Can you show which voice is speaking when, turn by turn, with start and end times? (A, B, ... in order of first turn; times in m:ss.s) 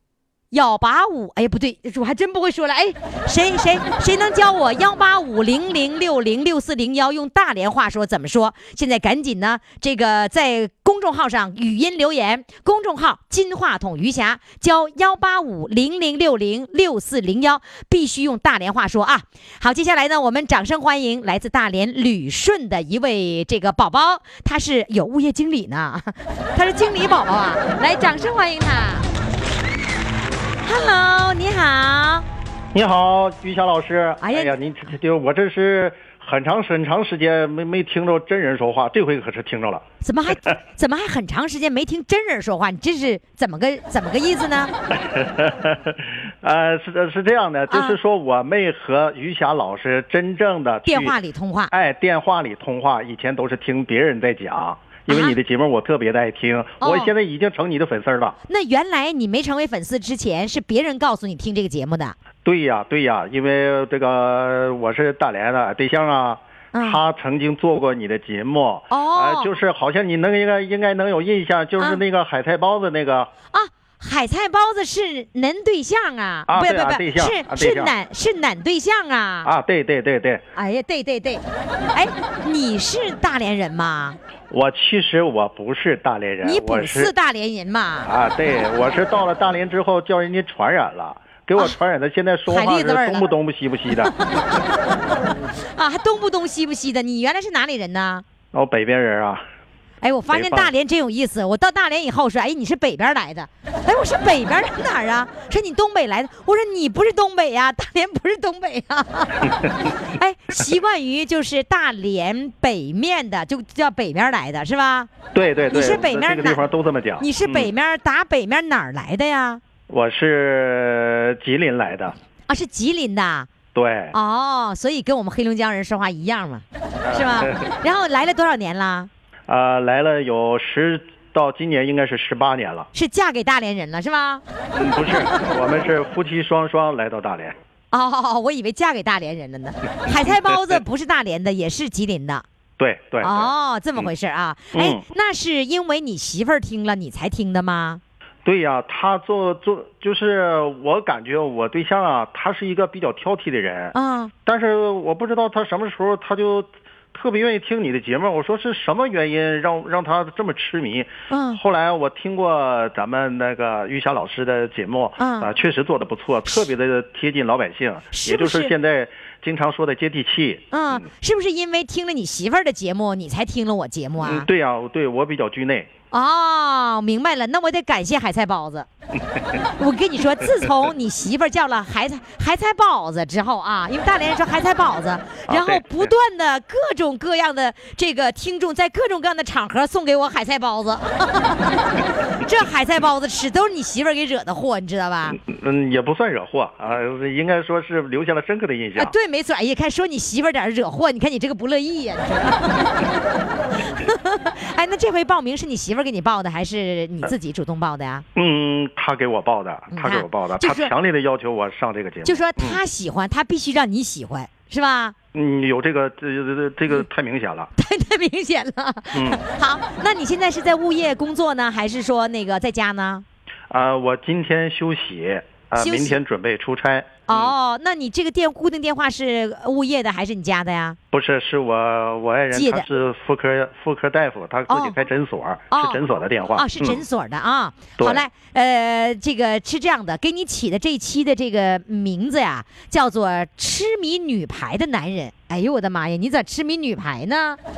0:00.5-0:29.1 A
0:30.6-0:32.2 A
0:32.7-0:39.8 B
0:34.2-0:34.6 A
0:40.0-0:44.7 A
0:45.0-0:51.1 B
0:47.7-0:48.0 A
0:50.8-0:51.7 A
0:51.7-0:58.4 B
0:55.1-0:55.4 A
0:56.8-0:57.1 A
0:58.5-1:02.2 A
1:02.4-1:13.3 B
1:06.7-1:07.0 A
1:08.9-1:09.5 A
1:13.5-1:19.5 A
1:16.5-1:17.9 B
1:19.4-1:20.4 B
1:20.6-1:24.2 A
1:24.5-1:27.1 B
1:26.4-1:28.1 A
1:28.0-1:34.2 B
1:32.5-1:33.3 A
1:33.9-1:38.2 A
1:38.5-1:39.4 B
1:40.0-1:55.1 A
1:40.3-1:40.7 B
1:55.3-1:57.7 B
1:55.7-1:56.7 A
1:57.2-1:59.6 A
1:59.9-2:02.2 B
2:02.5-2:03.5 A
2:03.7-2:04.1 B
2:04.1-2:09.1 A
2:07.0-2:07.7 B
2:09.5-2:12.9 B
2:12.9-2:15.4 A
2:14.8-2:17.6 B
2:17.9-2:22.4 A
2:20.1-2:20.4 B
2:22.8-2:24.1 B
2:23.2-2:28.0 A
2:24.7-2:25.0 B
2:28.4-2:33.9 B
2:33.9-2:34.3 A
2:34.4-2:50.7 B
2:41.3-2:41.6 A
2:45.2-2:45.5 A
2:48.1-2:48.7 A
2:50.7-2:54.5 A
2:54.2-2:55.9 B
2:56.1-2:58.9 A
2:59.8-3:15.4 A
3:05.5-3:06.1 B
3:15.4-3:19.1 B
3:19.0-3:23.2 A
3:23.7-3:28.2 A
3:28.4-3:32.8 B
3:29.9-3:30.9 A
3:32.2-3:35.2 A
3:35.3-3:37.7 B
3:37.8-3:43.2 A
3:39.1-3:39.4 B
3:43.7-3:47.5 B
3:45.8-3:46.2 A
3:47.3-3:51.0 A
3:51.1-3:57.0 B
3:52.5-3:52.9 A
3:54.7-3:55.0 A
3:55.7-4:07.6 A
3:58.0-3:58.2 B